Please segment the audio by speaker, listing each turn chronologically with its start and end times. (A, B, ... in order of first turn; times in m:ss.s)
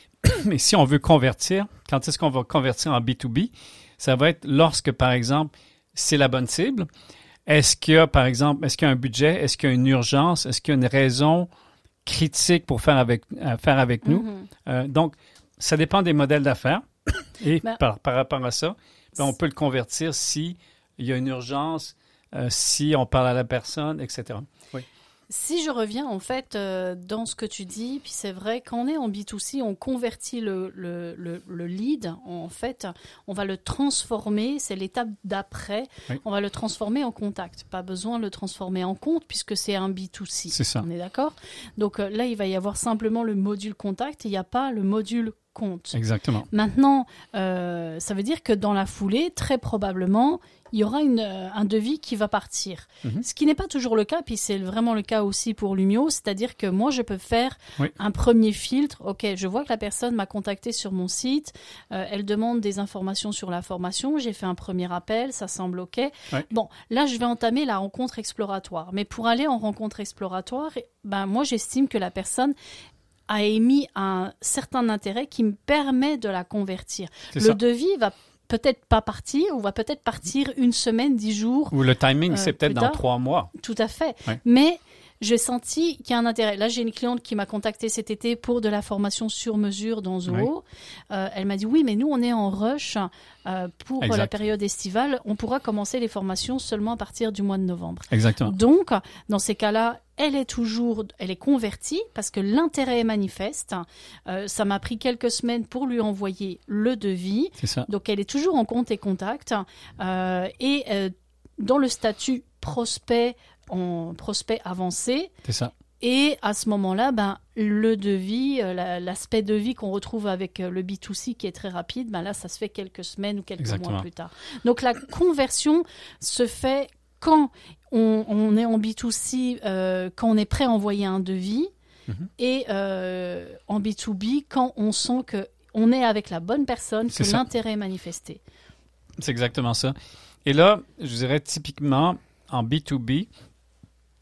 0:00.2-0:06.9 A
0:07.5-0:11.5 A
0:12.1-0:24.9 A
0:14.0-0:14.5 B
0:25.3-0:46.0 B
0:40.5-0:40.8 A
0:45.9-0:46.5 A
0:46.5-1:12.5 B
1:13.3-1:21.8 B
1:21.7-1:23.5 A
1:22.3-1:23.0 B
1:23.5-1:55.3 B
1:34.0-1:34.3 A
1:38.1-1:38.6 A
1:47.6-1:47.9 A
1:55.4-1:55.7 A
1:56.0-2:11.7 B
2:03.6-2:04.0 A
2:12.4-2:18.4 B
2:17.1-2:17.4 A
2:19.2-2:23.3 A